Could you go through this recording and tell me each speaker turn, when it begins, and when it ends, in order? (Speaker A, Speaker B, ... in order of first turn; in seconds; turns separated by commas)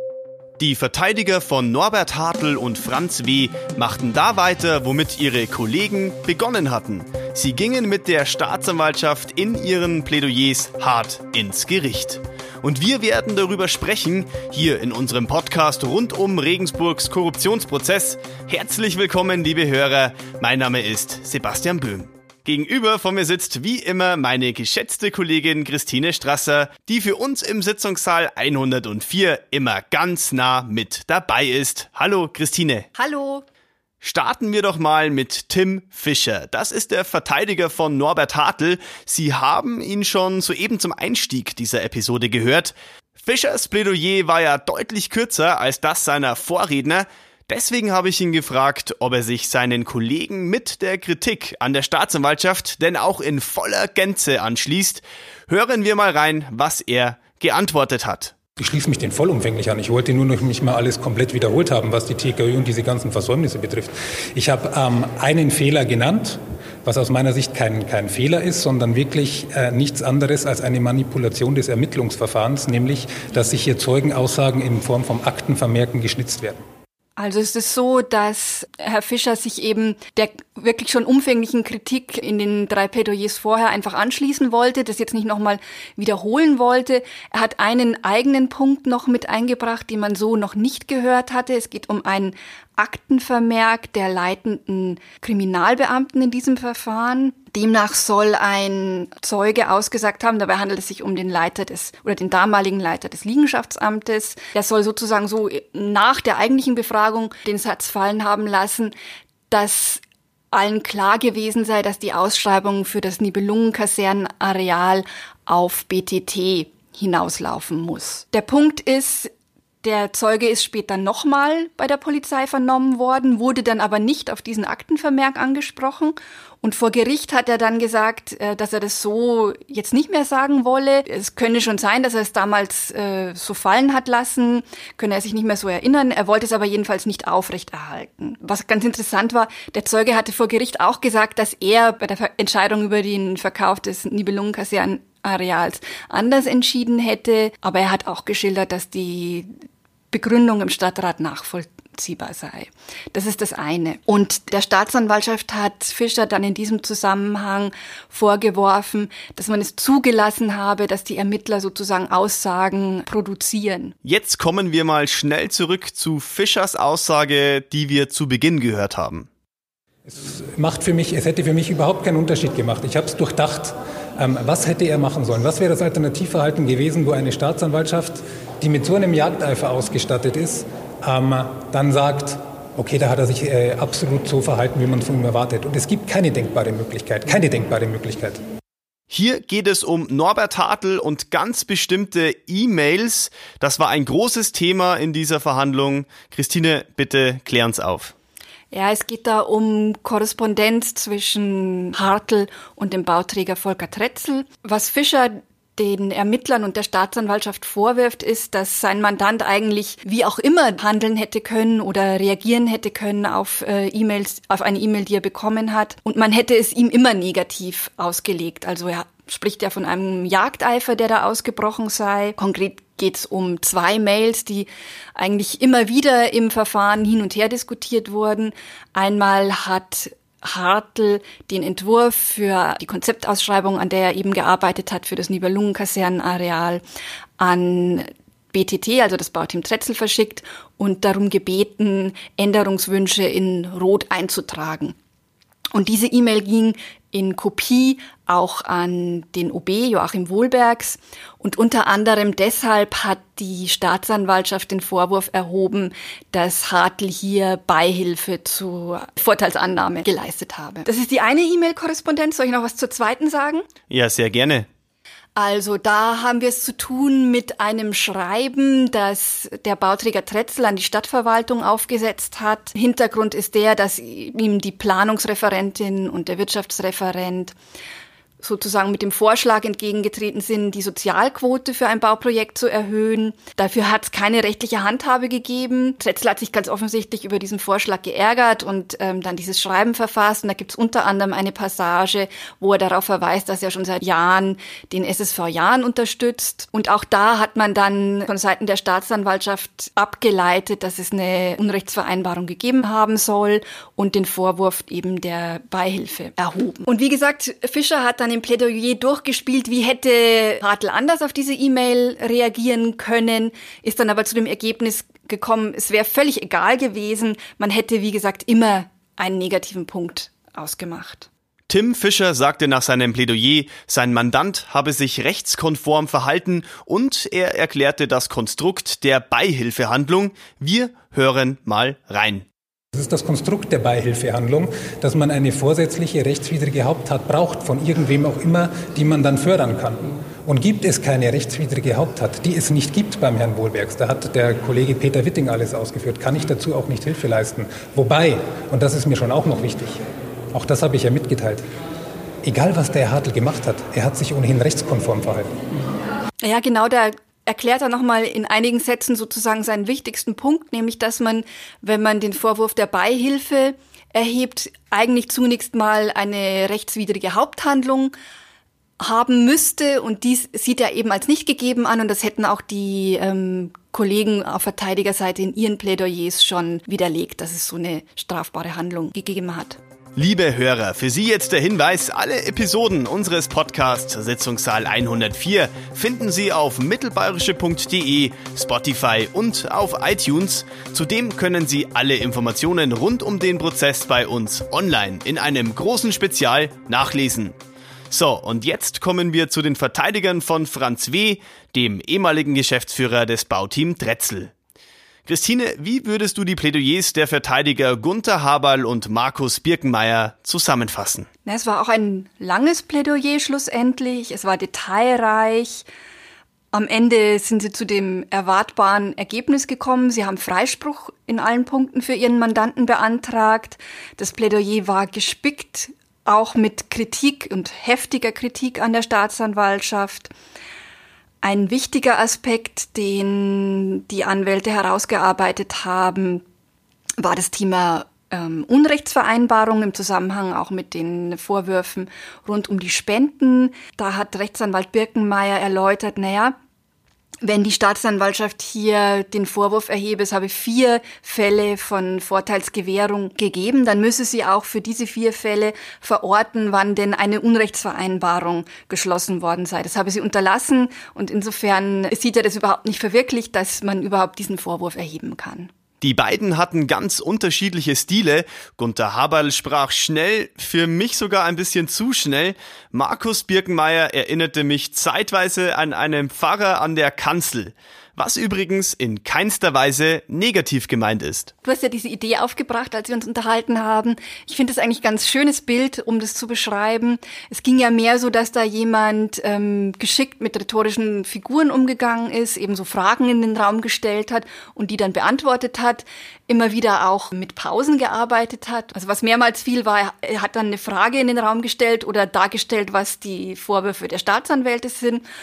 Speaker A: 0.6-32.9, Speaker B: 33.0-33.5, Speaker A: 34.0-58.3, Speaker C: 58.6-76.6, Speaker B: 77.2-108.9, Speaker B: 109.5-119.3, Speaker B: 119.8-149.5, Speaker B: 150.1-163.9, Speaker A: 164.0-169.3, Speaker C: 170.1-188.4, Speaker A: 189.1-198.1, Speaker B: 198.7-236.8, Speaker B: 237.4-245.0, Speaker B: 245.7-263.7, Speaker A: 263.9-264.7, Speaker B: 265.4-277.6, Speaker B: 278.4-321.3, Speaker A: 321.7-332.5, Speaker C: 332.9-350.0, Speaker C: 350.5-351.6, Speaker C: 352.4-355.5, Speaker B: 356.4-368.1, Speaker B: 369.0-379.8, Speaker A: 380.2-397.6, Speaker A: 398.1-404.5, Speaker A: 405.3-411.3, Speaker B: 411.4-415.9, Speaker B: 416.7-430.3, Speaker B: 431.4-436.4, Speaker B: 437.2-446.6, Speaker B: 447.4-465.7, Speaker A: 466.0-481.5, Speaker B: 481.6-505.2